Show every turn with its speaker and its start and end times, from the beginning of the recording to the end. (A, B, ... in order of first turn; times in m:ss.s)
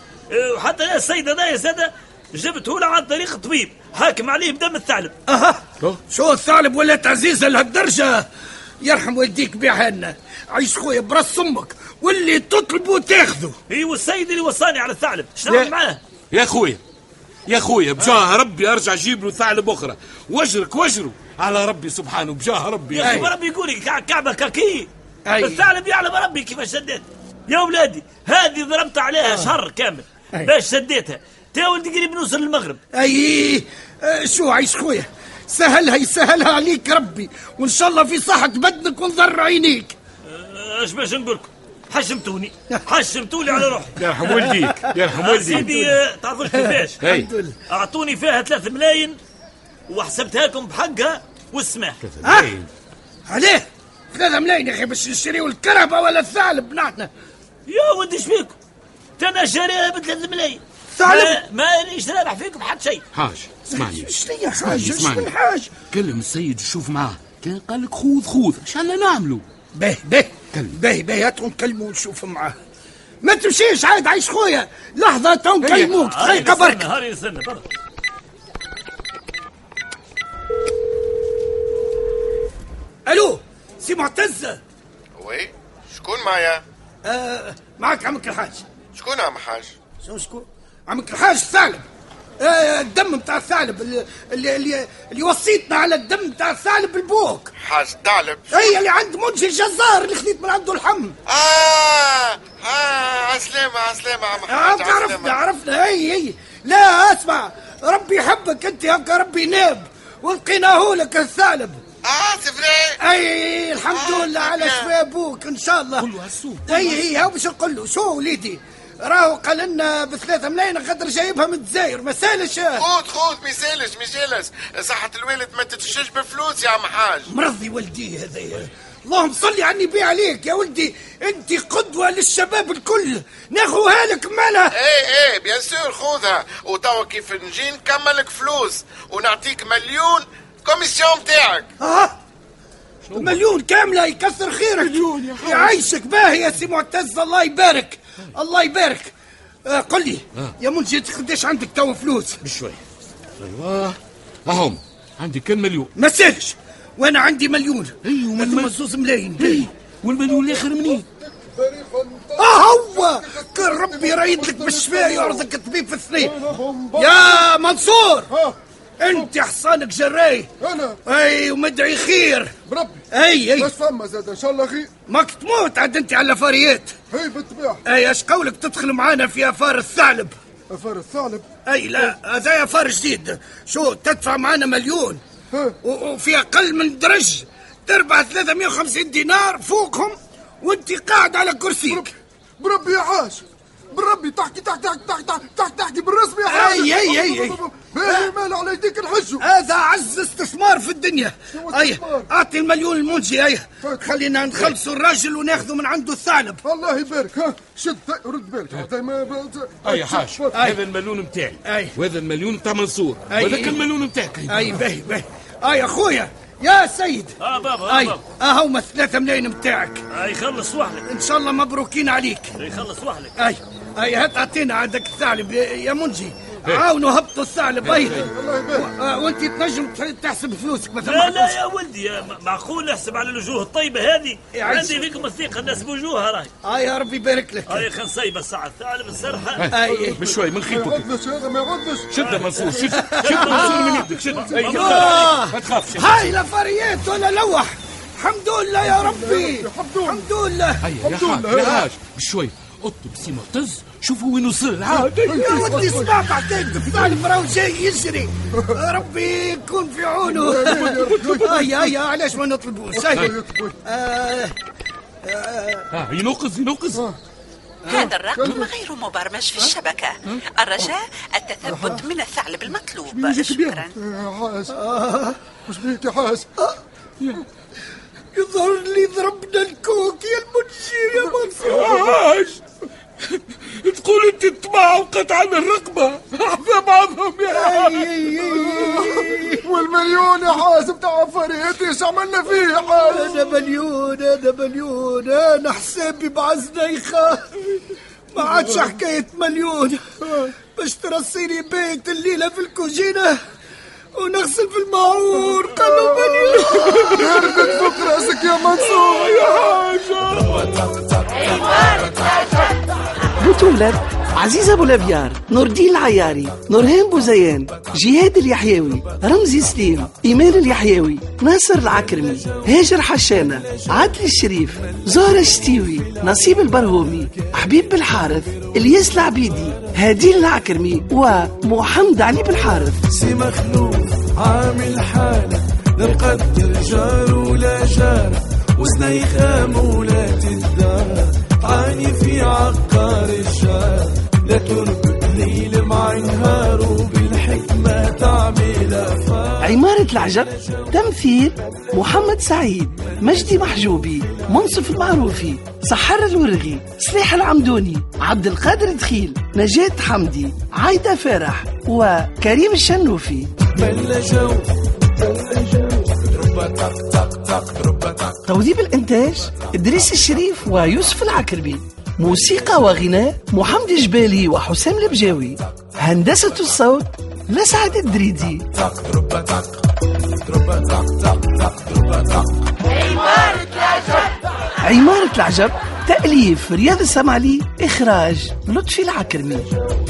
0:00.3-0:05.1 A
0:05.3-0:08.3 B
0:08.8-0:13.6 B
0:13.7-0:16.0 A
0:16.3-0:16.8 C
0:17.5-0:23.3 C
0:22.9-0:32.8 A
0:23.0-0:23.3 B
0:25.2-0:25.6 B
0:32.9-0:40.0 B
0:40.3-0:44.0 A
0:44.0-0:45.7 C
0:44.3-0:44.6 B
0:45.1-0:47.0 A
0:45.5-0:45.9 B
0:46.5-0:47.6 B
0:47.0-0:47.3 C
0:47.7-0:49.2 A
0:49.9-0:52.0 A
0:52.0-0:52.7 C
0:52.2-0:52.5 B
0:53.3-0:57.1 B
0:57.7-0:58.5 A
0:59.2-1:03.0 A
1:00.9-1:01.4 B
1:03.1-1:05.3 C
1:03.7-1:05.7 B
1:05.9-1:09.4 C
1:09.7-1:12.6 B
1:13.2-1:16.9 B
1:15.7-1:17.6 A
1:23.1-1:24.6 B
1:25.2-1:26.6 D
1:27.0-1:28.6 B
1:29.0-1:29.8 D
1:30.0-1:31.8 B
1:32.4-1:37.5 B
1:37.6-1:38.8 D
1:38.5-1:41.2 B
1:41.3-1:45.4 D
1:44.5-1:51.8 B
1:52.0-1:53.0 D
1:53.0-1:56.1 B
1:53.9-1:54.9 D
1:56.0-1:57.0 C
1:56.6-2:02.8 B
2:02.8-2:07.3 D
2:07.3-2:14.7 B
2:14.7-2:21.7 D
2:21.8-2:22.2 B
2:23.1-2:23.4 C
2:23.1-2:29.1 B
2:24.8-2:25.8 C
2:29.6-2:32.4 B
2:32.4-2:32.8 C
2:33.4-2:35.9 C
2:36.0-2:39.7 B
2:38.0-2:38.7 C
2:39.4-2:41.0 C
2:40.3-2:45.5 E
2:42.4-2:46.4 B
2:46.2-2:47.5 E
2:47.0-2:48.3 B
2:48.3-2:48.6 E
2:49.0-2:50.5 B
2:50.6-2:51.0 E
2:51.0-2:52.5 B
2:52.6-2:53.0 E
2:53.1-2:53.7 B
2:53.6-2:54.9 E
2:55.1-2:56.9 B
2:57.1-2:57.8 E
2:57.9-3:00.4 B
3:00.7-3:01.4 E
3:01.6-3:05.2 B
3:05.8-3:12.1 B
3:11.9-3:19.4 E
3:16.5-3:18.3 B
3:19.4-3:26.6 B
3:21.5-3:22.3 E
3:23.8-3:24.2 E
3:26.6-3:30.6 E
3:29.8-3:34.8 C
3:30.5-3:30.8 B
3:31.6-3:32.0 B
3:33.3-3:33.8 B
3:34.5-3:37.3 B
3:37.4-3:38.2 A
3:37.9-3:40.0 B
3:40.1-3:41.0 A
3:41.0-3:42.5 B
3:42.6-3:43.4 A
3:43.4-3:51.6 B
3:48.2-3:48.9 E
3:51.0-3:56.5 A
3:54.5-3:55.2 B
3:56.6-3:57.8 B
3:57.7-3:59.7 A
3:59.6-4:01.1 C
3:59.7-4:00.2 B
3:59.8-4:02.9 E
4:02.1-4:06.2 C
4:02.9-4:03.7 B
4:03.1-4:04.9 A
4:03.5-4:04.6 E
4:04.6-4:10.8 B
4:08.8-4:10.3 E
4:10.8-4:16.0 C
4:11.0-4:11.9 E
4:14.9-4:16.1 E
4:15.4-4:23.3 B
4:20.3-4:21.6 E
4:20.6-4:21.8 C
4:22.9-4:23.8 E
4:23.8-4:24.5 B
4:25.2-4:25.9 B
4:25.9-4:27.0 C
4:27.8-4:28.1 B
4:27.8-4:34.0 F
4:27.9-4:28.7 C
4:28.3-4:28.7 E
4:31.7-4:32.0 E
4:33.1-4:34.8 E
4:34.7-4:35.4 B
4:35.7-4:36.5 E
4:38.3-4:41.9 B
4:41.6-4:42.6 C
4:43.3-4:48.3 C
4:47.5-4:49.7 B
4:48.8-4:53.6 E
4:52.5-4:57.5 B
4:58.3-5:00.0 B
5:00.2-5:00.5 E
5:00.8-5:03.4 B
5:04.2-5:07.2 B
5:06.9-5:11.0 C
5:07.2-5:09.6 E
5:11.4-5:12.0 G
5:13.4-5:33.1 H
5:21.9-5:29.9 G
5:33.1-5:49.8 G
5:49.6-6:03.5 H
5:50.5-5:50.9 G
5:53.0-5:54.5 G
6:03.7-6:08.4 G
6:08.5-6:18.7 H
6:18.8-6:19.8 G
6:20.5-6:22.6 G
6:24.8-6:29.7 H